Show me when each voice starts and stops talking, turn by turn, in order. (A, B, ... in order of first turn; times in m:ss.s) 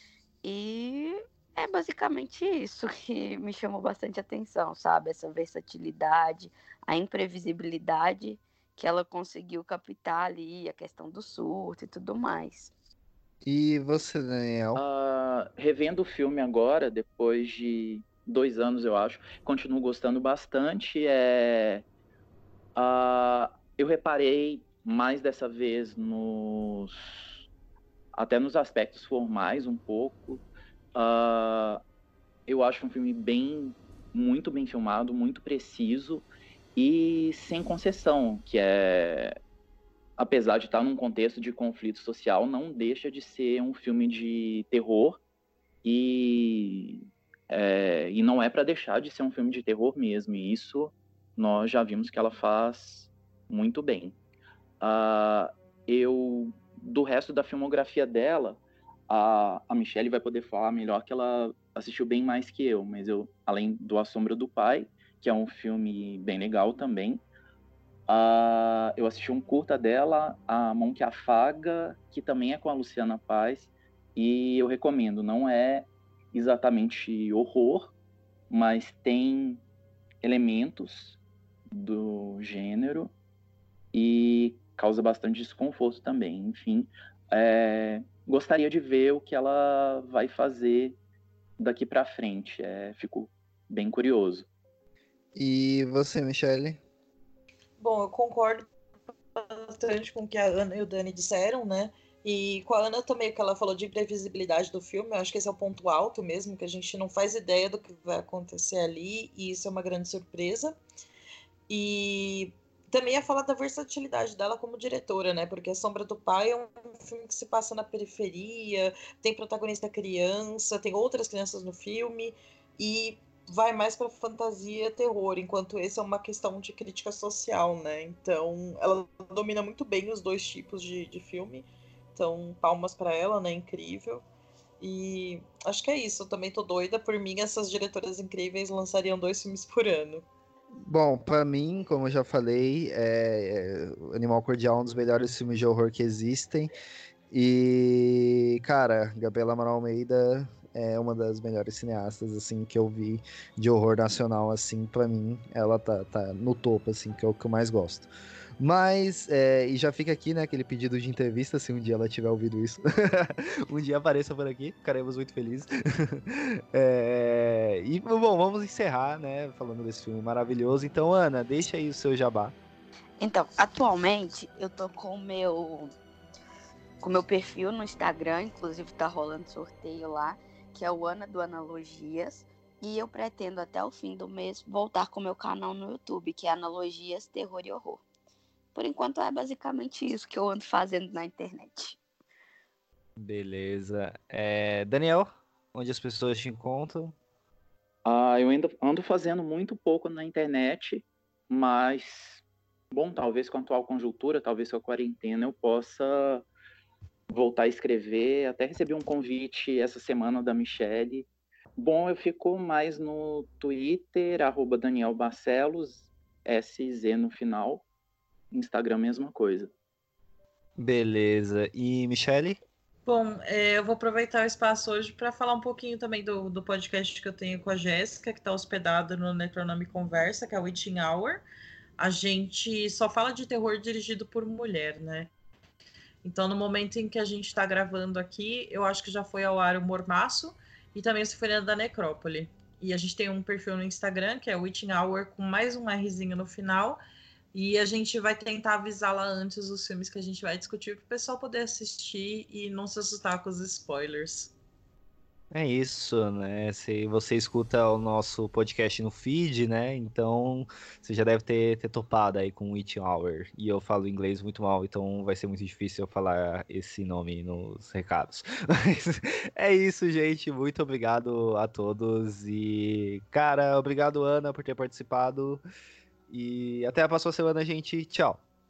0:00.4-0:12.7 A
0:13.4-0:14.8 B
0:14.7-0:21.8 C
0:22.8-0:27.3 C
0:28.1-0:30.4 C
0:30.9-0:31.8 C
0:32.5-0:39.4 C
0:40.2-0:45.2 C
0:45.8-0:54.2 C
0:54.8-1:07.2 C
1:08.1-1:17.9 C
1:18.5-1:19.6 C
1:20.2-1:21.2 C
1:21.7-1:23.1 C
1:23.9-1:31.0 C
1:31.6-1:34.5 C
1:35.3-1:36.8 B
1:37.8-1:38.7 D
1:39.4-1:50.8 D
1:51.7-2:14.2 D
2:14.8-2:20.2 D
2:20.8-2:26.7 B
2:27.3-2:38.1 B
2:38.6-2:52.5 B
2:53.2-2:55.9 A
2:57.0-3:08.0 A
3:08.7-3:12.0 A
3:13.2-3:17.2 B
3:18.0-3:26.4 C
3:27.3-3:37.8 C
3:38.5-3:39.7 C
3:40.8-3:42.6 B
3:43.0-3:51.4 D
3:52.0-3:55.3 D
3:56.2-4:07.0 D
4:07.5-4:14.5 D
4:15.5-4:35.6 B
4:36.3-4:38.4 B